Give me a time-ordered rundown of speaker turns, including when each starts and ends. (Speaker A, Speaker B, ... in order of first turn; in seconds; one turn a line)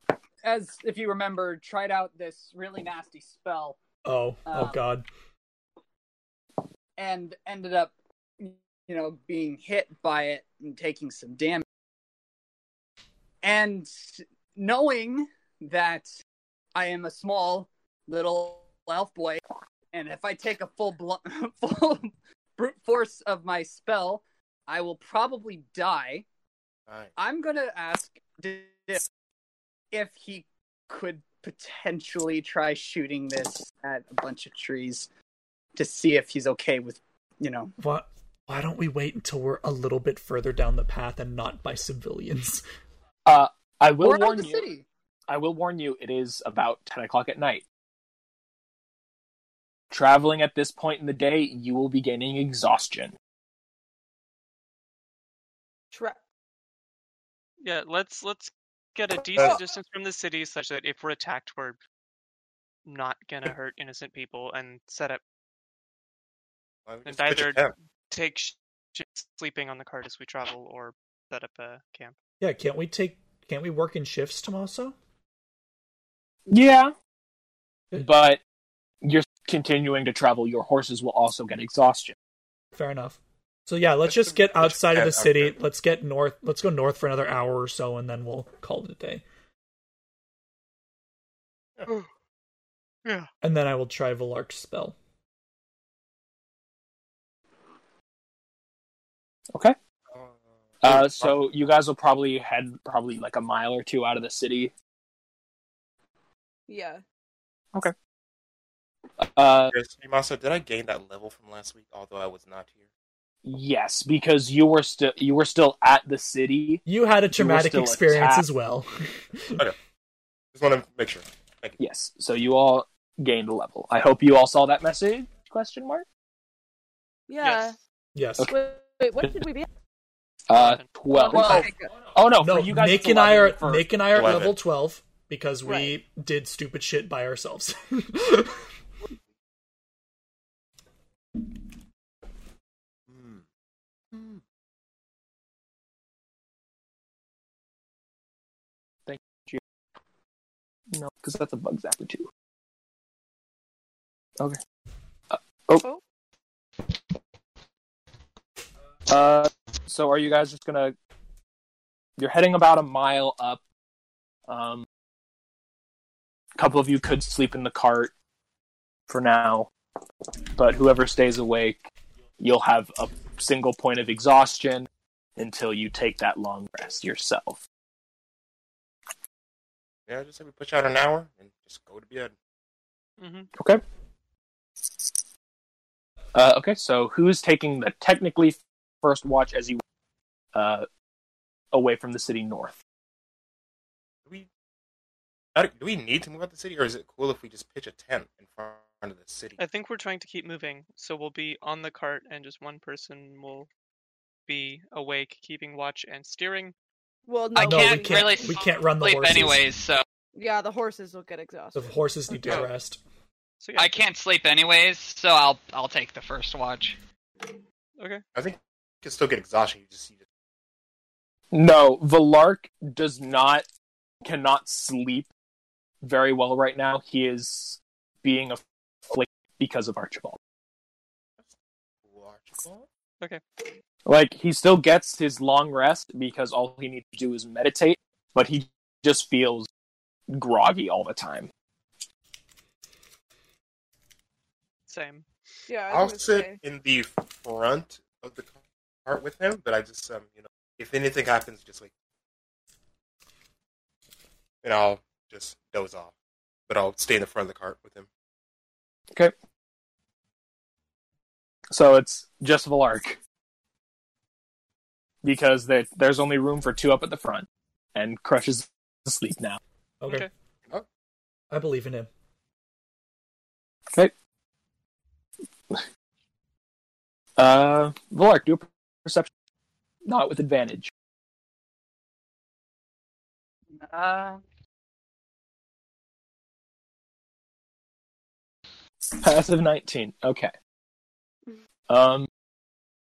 Speaker A: 0.4-3.8
Speaker B: 4.0-5.0
Speaker A: 4.5-4.8
Speaker A: 7.0-11.6
Speaker A: 13.4-16.1
Speaker A: 16.7-26.2
Speaker A: 27.2-29.0
Speaker A: 29.9-35.1
Speaker A: 35.7-37.7
Speaker B: 37.8-42.6
Speaker C: 43.2-44.6
Speaker A: 44.0-44.9
Speaker C: 45.3-47.6
Speaker C: 49.9-53.1
Speaker D: 55.9-56.2
Speaker E: 57.6-61.8
Speaker E: 62.8-65.2
Speaker F: 66.9-67.7
Speaker E: 67.0-72.2
Speaker B: 72.4-74.9
Speaker C: 76.5-76.9
Speaker C: 78.0-78.4
Speaker C: 79.0-82.1
Speaker B: 82.7-89.2
Speaker F: 84.0-85.5
Speaker E: 93.0-93.3
Speaker B: 93.4-95.0
Speaker F: 100.1-101.4
Speaker C: 100.8-104.7
Speaker D: 106.7-107.0
Speaker C: 109.2-109.7
Speaker F: 109.7-112.8
Speaker C: 113.4-116.8
Speaker B: 116.8-119.6
Speaker C: 117.3-118.4
Speaker F: 120.5-121.8
Speaker C: 121.8-126.0
Speaker D: 127.3-127.8
Speaker E: 127.4-127.8
Speaker B: 128.1-128.5
Speaker D: 128.4-129.7
Speaker C: 130.5-133.8
Speaker E: 130.5-130.9
Speaker D: 131.1-131.9
Speaker B: 131.3-131.7
Speaker B: 132.4-138.6
Speaker F: 134.1-134.6
Speaker D: 135.6-135.9
Speaker F: 143.1-143.4
Speaker F: 144.1-144.4
Speaker C: 149.1-149.6
Speaker C: 150.9-152.3
Speaker C: 155.3-155.8
Speaker C: 159.1-160.9
Speaker C: 162.2-163.6
Speaker C: 164.5-164.8
Speaker C: 166.6-168.1
Speaker C: 169.1-169.7
Speaker C: 170.5-177.6
Speaker F: 180.1-182.3
Speaker E: 183.2-183.5
Speaker C: 186.3-189.8
Speaker C: 190.5-190.9
Speaker C: 191.7-192.8
Speaker F: 195.5-199.6
Speaker E: 199.6-203.7
Speaker E: 204.5-206.7
Speaker D: 207.3-208.6
Speaker G: 207.5-210.0
Speaker B: 207.6-209.7
Speaker D: 210.3-212.6
Speaker B: 211.7-213.0
Speaker E: 212.4-212.7
Speaker E: 213.6-213.9
Speaker G: 213.7-217.0
Speaker E: 218.0-218.2
Speaker F: 218.3-220.2
Speaker C: 221.5-223.7
Speaker C: 224.2-225.3
Speaker C: 226.0-230.4
Speaker F: 231.4-232.9
Speaker C: 234.0-239.7
Speaker C: 240.3-241.5
Speaker E: 244.9-245.3
Speaker D: 245.7-246.6
Speaker F: 245.9-251.9
Speaker F: 254.6-256.1
Speaker F: 256.7-258.1
Speaker C: 261.7-263.2
Speaker C: 265.2-269.6
Speaker B: 270.0-270.3
Speaker E: 270.1-270.3
Speaker B: 271.5-272.1
Speaker C: 277.4-279.3
Speaker C: 280.0-280.9
Speaker A: 283.7-284.4
Speaker C: 289.2-290.5
Speaker C: 291.9-292.3